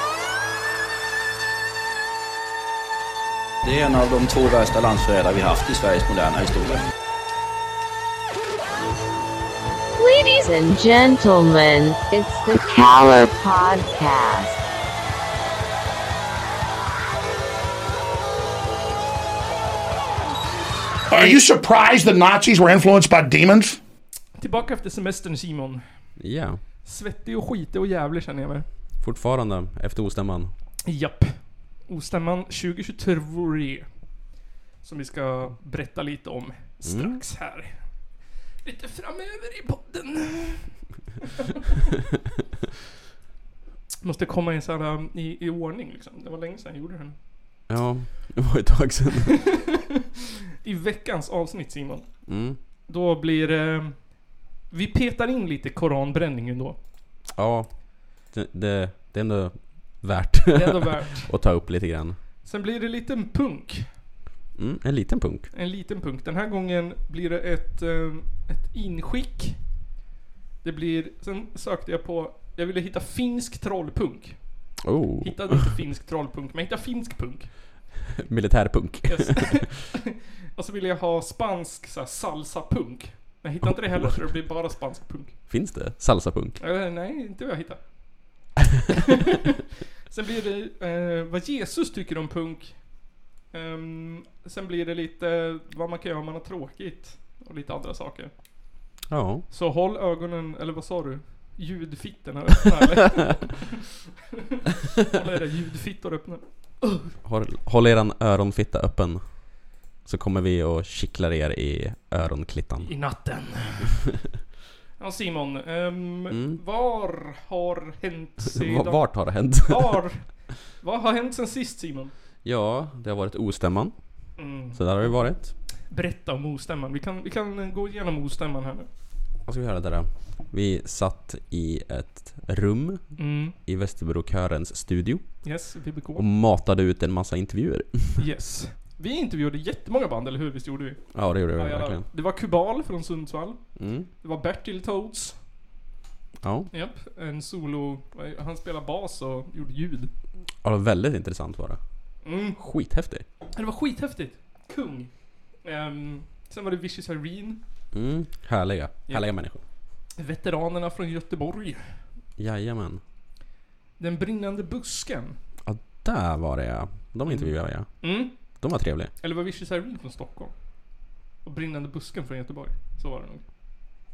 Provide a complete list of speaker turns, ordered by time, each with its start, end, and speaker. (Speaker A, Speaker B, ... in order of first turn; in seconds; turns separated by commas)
Speaker A: 3.6-3.9, Speaker B: 3.6-6.7, Speaker A: 6.1-6.8, Speaker C: 10.0-14.6, Speaker A: 21.1-23.8, Speaker D: 24.4-25.9, Speaker E: 26.2-26.6, Speaker D: 26.8-28.6, Speaker E: 29.0-30.5, Speaker D: 30.9-34.0, Speaker D: 34.8-37.9, Speaker E: 36.8-37.2, Speaker D: 38.6-40.8, Speaker D: 44.0-47.2, Speaker E: 47.7-49.4, Speaker D: 50.6-52.2, Speaker E: 52.2-52.6, Speaker D: 52.9-56.8, Speaker E: 57.3-62.2, Speaker D: 60.5-61.3, Speaker D: 62.4-63.9, Speaker E: 64.5-65.5, Speaker D: 65.5-69.7, Speaker D: 70.6-77.5, Speaker E: 74.8-75.6, Speaker E: 78.2-79.7, Speaker D: 79.1-80.0, Speaker D: 80.5-85.4, Speaker E: 83.6-84.5, Speaker E: 85.5-86.6, Speaker D: 86.6-89.5, Speaker D: 90.1-98.3, Speaker E: 99.1-99.4, Speaker D: 99.5-103.8, Speaker D: 105.0-107.1, Speaker E: 107.2-112.9, Speaker D: 112.8-114.1, Speaker D: 115.0-122.1, Speaker E: 116.3-116.6, Speaker E: 118.4-120.0, Speaker E: 122.4-125.5, Speaker D: 124.4-128.9, Speaker E: 129.4-138.2, Speaker D: 133.2-133.5, Speaker D: 135.4-136.2, Speaker D: 138.2-145.4, Speaker E: 141.1-142.0, Speaker E: 143.8-144.1, Speaker E: 146.4-146.7, Speaker D: 146.7-150.1, Speaker E: 150.6-151.8, Speaker D: 152.2-152.6, Speaker E: 152.6-153.2, Speaker D: 153.5-157.6, Speaker E: 157.9-159.6, Speaker D: 160.2-162.0, Speaker E: 162.4-163.0, Speaker D: 164.0-165.4, Speaker E: 165.7-169.1, Speaker D: 167.2-168.6, Speaker D: 169.2-170.9, Speaker D: 171.4-173.4